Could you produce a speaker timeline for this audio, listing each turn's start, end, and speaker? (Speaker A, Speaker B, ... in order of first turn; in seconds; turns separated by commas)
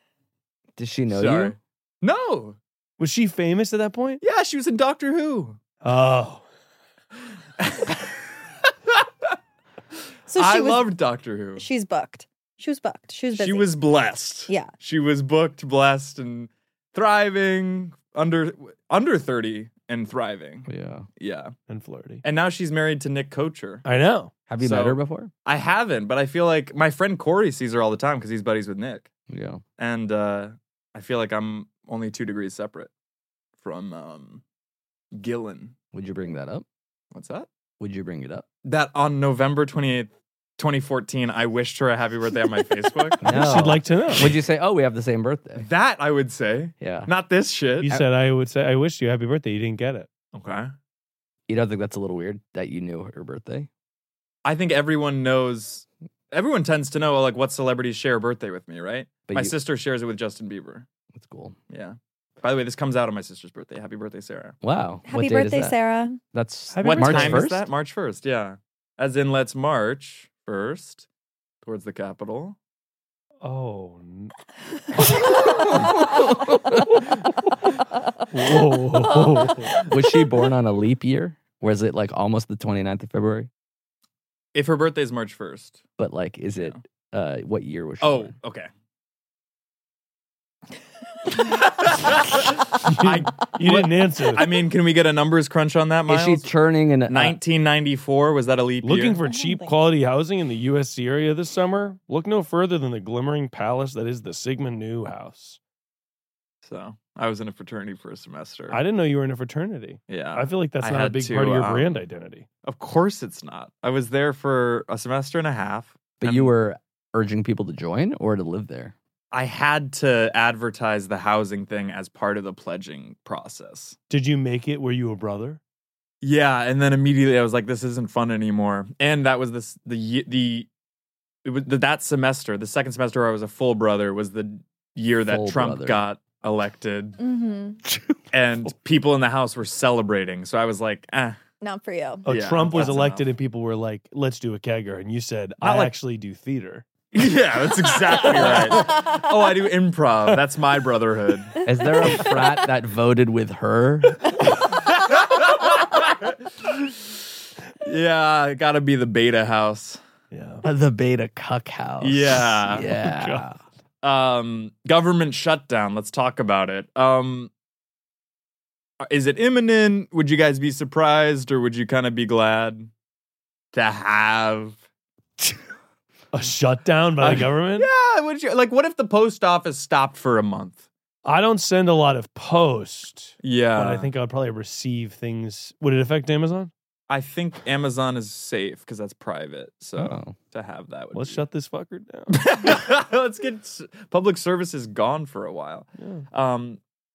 Speaker A: 0.8-1.6, Speaker B: 1.1-2.6, Speaker C: 3.0-4.2, Speaker B: 4.2-5.6, Speaker C: 5.8-6.5, Speaker B: 7.6-8.0, Speaker D: 10.3-10.9, Speaker B: 10.3-11.7, Speaker D: 11.6-13.7, Speaker B: 13.3-20.7, Speaker A: 20.7-21.1, Speaker B: 21.2-21.5, Speaker C: 21.7-22.2, Speaker B: 22.2-23.9, Speaker C: 23.9-24.3, Speaker A: 24.5-25.3, Speaker B: 24.6-29.1, Speaker A: 29.3-29.6, Speaker B: 29.8-32.9, Speaker B: 33.6-34.4, Speaker B: 35.1-35.7, Speaker A: 35.9-36.7, Speaker B: 37.1-37.5, Speaker A: 37.8-38.5, Speaker B: 38.6-43.2, Speaker A: 43.2-45.7, Speaker C: 43.3-44.3, Speaker B: 45.6-48.0, Speaker A: 46.8-47.1, Speaker C: 47.8-50.1, Speaker B: 50.3-50.7, Speaker A: 51.5-53.7, Speaker B: 54.5-60.9, Speaker A: 59.3-59.6, Speaker A: 61.1-61.6, Speaker B: 61.7-64.6, Speaker A: 64.6-65.8, Speaker D: 65.1-66.2, Speaker A: 66.3-67.7, Speaker C: 66.7-67.5, Speaker B: 66.8-71.1, Speaker B: 71.6-72.6, Speaker C: 73.4-74.3, Speaker A: 76.0-77.0, Speaker C: 78.3-79.8, Speaker A: 79.8-83.5, Speaker B: 84.5-85.8, Speaker A: 86.0-88.3, Speaker B: 88.0-88.7, Speaker B: 91.4-96.5, Speaker C: 92.8-94.4, Speaker A: 96.1-97.4, Speaker B: 97.1-99.2, Speaker C: 98.8-105.6, Speaker D: 99.3-99.7, Speaker B: 106.6-108.8, Speaker C: 108.7-112.5, Speaker B: 110.1-112.0, Speaker B: 112.7-116.5, Speaker A: 116.2-118.9, Speaker B: 119.3-124.0, Speaker C: 124.1-125.6, Speaker B: 126.2-130.7, Speaker B: 131.4-137.2, Speaker A: 135.2-136.0, Speaker D: 137.2-137.8, Speaker A: 137.9-138.2, Speaker B: 138.3-141.4, Speaker D: 141.6-142.3, Speaker B: 142.2-143.3, Speaker C: 142.2-146.9, Speaker B: 145.6-145.9, Speaker B: 147.1-151.5, Speaker C: 148.3-148.9, Speaker A: 151.7-154.4, Speaker B: 155.1-156.8, Speaker B: 157.8-160.0, Speaker C: 160.3-160.6, Speaker A: 160.6-163.6, Speaker B: 162.0-162.9, Speaker C: 162.9-163.4, Speaker B: 164.0-167.5, Speaker B: 169.0-172.9, Speaker B: 173.7-174.8, Speaker C: 176.3-177.9, Speaker B: 177.2-180.9, Speaker C: 181.2-186.7, Speaker B: 183.4-184.1, Speaker B: 187.1-191.4, Speaker A: 190.0-190.4, Speaker C: 191.1-192.4, Speaker B: 192.3-196.8, Speaker C: 196.0-196.3